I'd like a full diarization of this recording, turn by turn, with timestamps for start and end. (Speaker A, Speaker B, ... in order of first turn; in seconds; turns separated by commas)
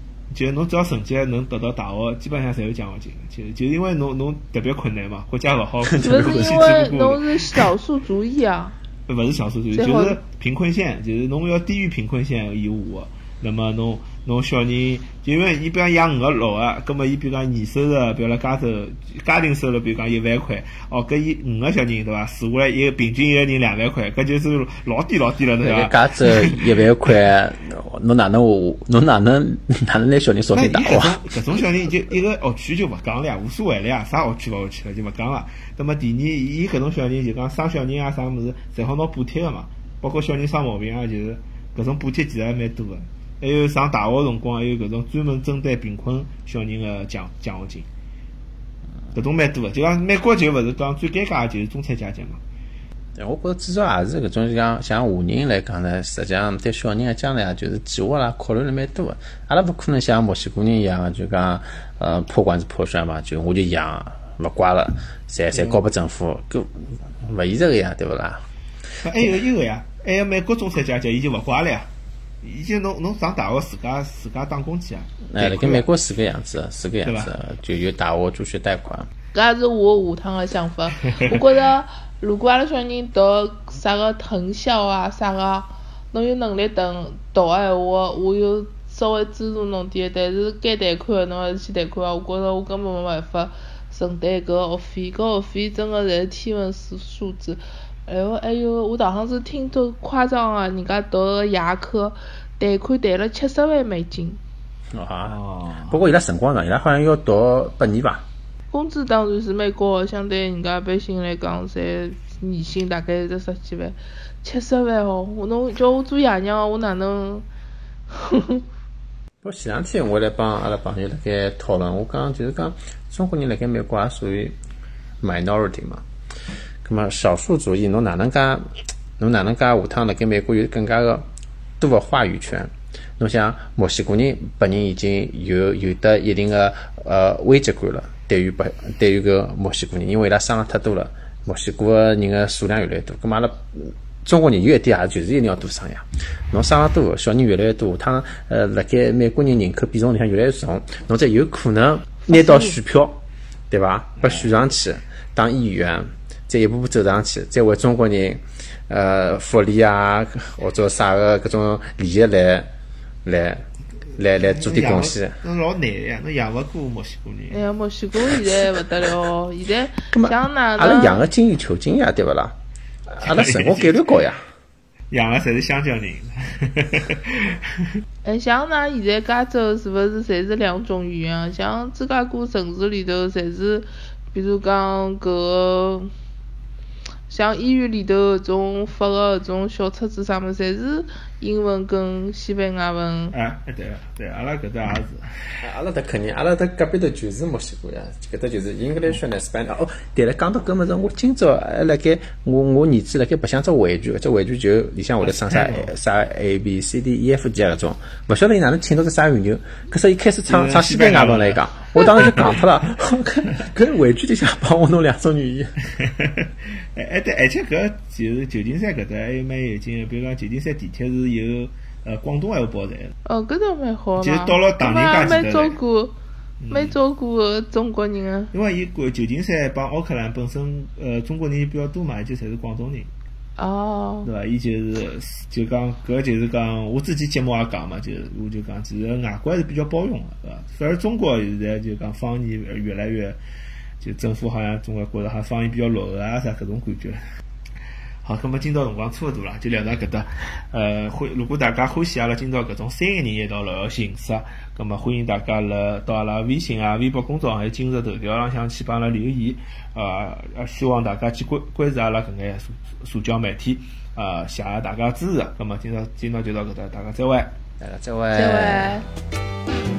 Speaker A: 0.3-7.7, Speaker B: 5.8-6.8, Speaker C: 6.0-8.7, Speaker A: 9.1-26.8, Speaker C: 9.7-10.2, Speaker B: 25.6-31.3, Speaker A: 30.5-47.9, Speaker A: 49.1-52.4, Speaker B: 53.2-68.4, Speaker A: 65.5-65.8, Speaker A: 69.0-71.9, Speaker A: 72.4-75.9, Speaker B: 75.3-79.1, Speaker A: 77.0-77.3, Speaker C: 79.3-104.4, Speaker B: 104.9-105.4, Speaker A: 105.2-106.0, Speaker B: 105.9-108.3, Speaker C: 108.7-117.5, Speaker C: 118.1-118.6, Speaker B: 119.4-124.6, Speaker B: 125.2-126.0, Speaker B: 126.8-128.7, Speaker B: 129.2-131.2, Speaker B: 131.8-162.7, Speaker C: 152.3-152.7, Speaker A: 154.2-154.5, Speaker B: 163.2-163.6, Speaker B: 164.2-165.4, Speaker A: 164.4-167.6, Speaker C: 167.5-171.2, Speaker B: 170.1-172.6, Speaker B: 173.1-174.4, Speaker A: 173.2-174.1, Speaker A: 175.1-178.0, Speaker C: 178.2-186.1, Speaker C: 187.3-193.3, Speaker A: 193.3-195.4, Speaker B: 195.6-215.7, Speaker A: 205.3-205.9, Speaker A: 210.5-212.6, Speaker A: 216.0-223.1, Speaker C: 223.2-226.2, Speaker A: 224.2-225.8, Speaker A: 226.6-227.0, Speaker C: 226.7-228.5, Speaker A: 228.5-233.1, Speaker C: 233.6-234.3, Speaker A: 234.2-243.4, Speaker A: 244.0-247.2, Speaker A: 248.2-267.5, Speaker B: 267.8-269.0, Speaker C: 268.3-269.1